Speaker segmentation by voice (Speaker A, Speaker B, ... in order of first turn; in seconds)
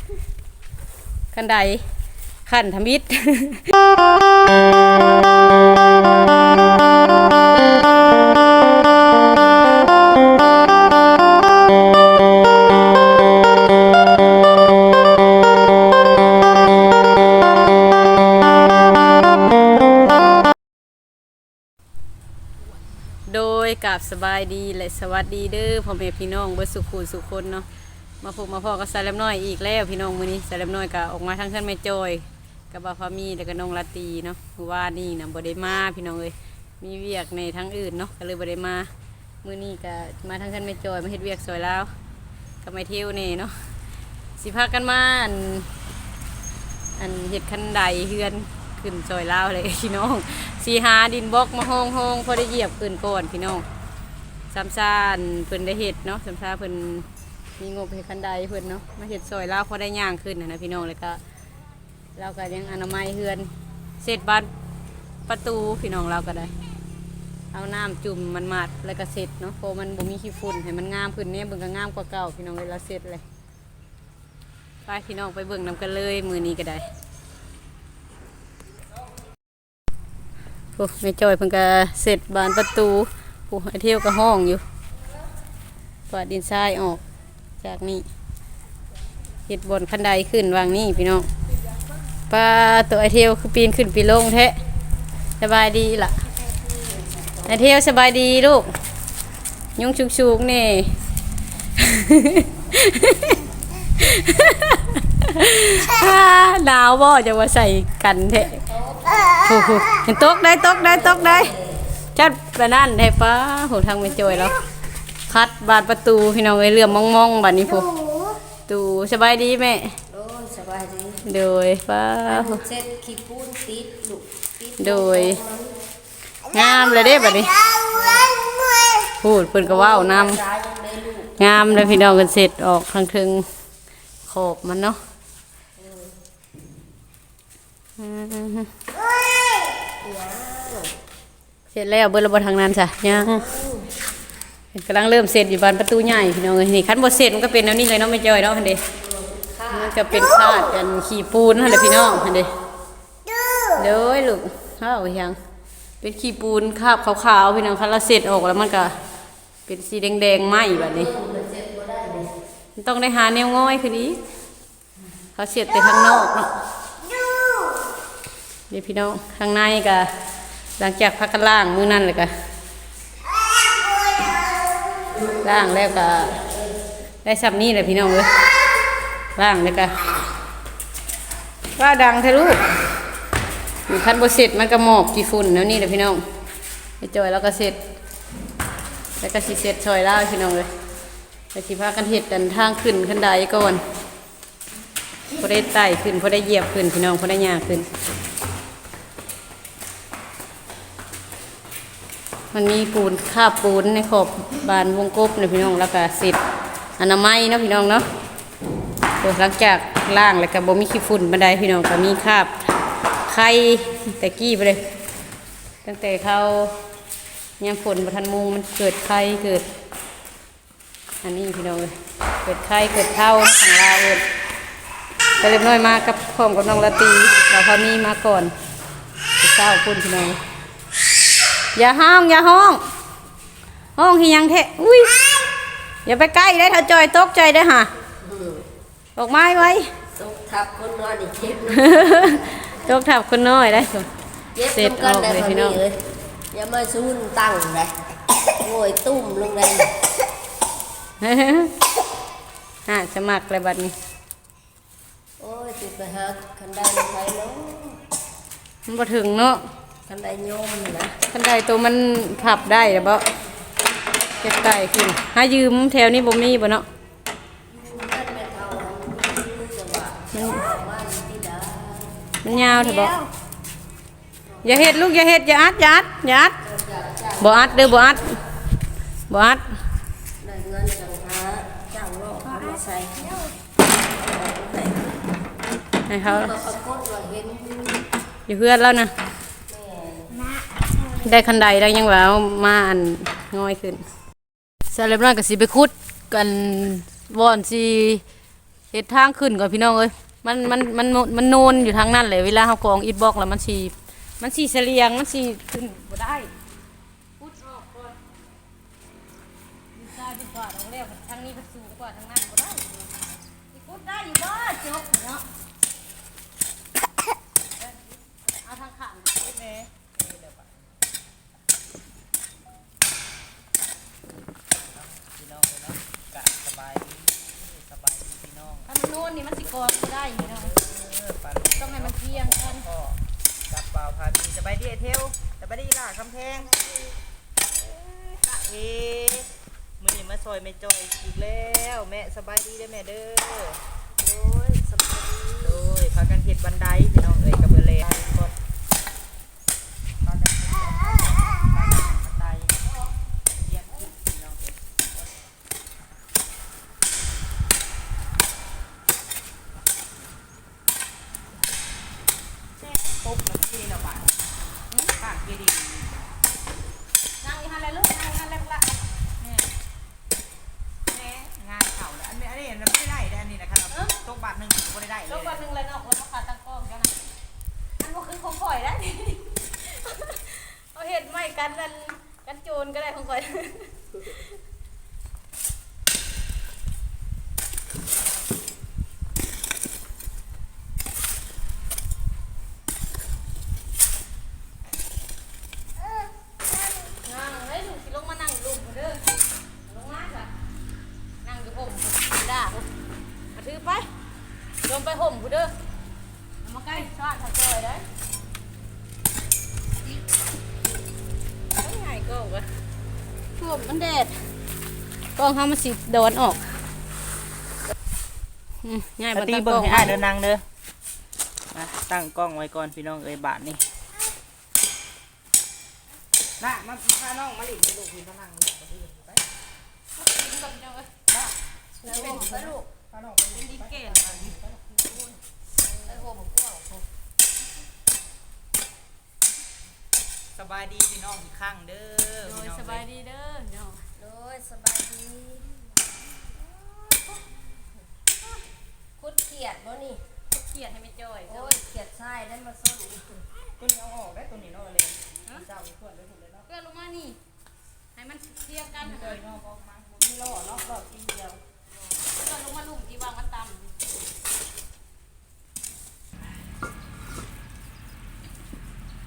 Speaker A: 1.3-1.8, 2.5-3.7, 23.3-27.7, 28.2-38.9, 39.4-41.9, 42.6-43.5, 44.4-45.7, 47.0-53.6, 54.5-57.1, 57.6-61.2, 62.2-63.5, 64.0-64.5, 65.3-66.5, 67.5-73.2, 74.9-76.9, 80.8-84.6, 86.1-87.0, 87.6-88.1, 89.5-91.3, 92.3-94.6, 95.4-96.2, 97.5-98.7, 99.8-100.9, 101.8-103.5, 104.0-108.6, 109.4-111.5, 112.2-114.6, 115.3-117.9, 118.7-120.0, 121.2-122.6, 124.8-125.4, 126.5-127.5, 129.2-130.4, 131.4-133.5, 134.3-135.0, 138.0-138.7, 141.7-143.5, 144.7-148.8, 149.7-152.5, 153.8-155.4, 156.0-158.9, 159.7-161.1, 162.8-164.2, 165.4-166.5, 168.7-170.1, 170.8-172.3, 175.4-176.4, 177.2-178.3, 179.3-180.0, 181.8-182.7, 183.9-186.2, 187.0-187.8, 189.2-190.7, 191.5-193.8, 195.3-197.9, 202.5-206.4, 207.0-208.1, 209.2-212.5, 213.3-214.8, 215.8-216.8, 217.6-219.7, 221.2-224.2, 225.4-228.5, 229.4-230.4, 231.8-232.8, 234.0-235.3, 236.1-237.9, 239.2-239.9, 241.7-244.1, 244.7-245.8, 251.2-251.7, 252.9-253.9, 258.9-259.6, 261.3-263.3, 264.4-266.9, 270.3-270.6, 272.4-273.2, 274.6-276.6, 277.4-278.3, 279.3-279.6, 286.1-286.6, 288.5-289.1, 291.1-294.0, 294.9-298.2, 298.9-306.5, 307.4-308.2, 309.9-313.1, 313.7-315.4, 317.8-319.4, 328.9-330.8, 331.8-332.9, 367.4-369.0, 375.3-377.2, 378.0-384.5, 397.1-399.3, 399.9-400.5, 401.4-402.9, 403.6-404.1, 404.8-405.7, 406.6-408.1, 411.8-412.7, 413.6-414.4, 415.4-416.7, 418.8-420.1, 430.2-431.1, 432.0-432.6, 433.5-435.4, 442.4-444.0, 450.5-451.8, 456.7-457.4, 458.1-459.4, 462.3-464.0
Speaker B: 91.7-91.9, 96.3-97.7, 108.6-109.9, 110.8-111.8, 117.6-118.4, 120.1-121.2, 122.3-125.8, 127.8-128.4, 129.6-132.2, 135.8-136.2, 139.8-140.9, 143.1-143.9, 148.9-150.1, 160.7-162.3, 175.1-175.7, 176.3-176.7, 238.2-238.7, 240.1-242.7, 244.6-247.9, 248.5-250.0, 255.4-258.0, 260.1-261.2, 267.7-273.3, 276.6-278.4, 280.4-285.2, 286.2-288.1, 289.7-290.5, 336.7-337.1, 337.9-338.4, 344.2-345.8, 432.0-432.9, 435.9-437.1, 444.2-445.7, 449.2-450.2, 451.5-453.5
Speaker C: 319.4-321.0, 324.9-328.9, 329.6-333.2, 333.7-336.7, 338.4-339.5, 340.0-343.8, 345.6-348.5, 350.2-352.9, 353.5-355.3, 362.8-364.3, 365.2-366.3, 369.4-369.7, 371.1-375.6, 419.3-420.6, 421.7-423.8, 426.6-429.5, 431.3-435.2, 440.6-443.1, 453.8-456.7, 459.0-461.6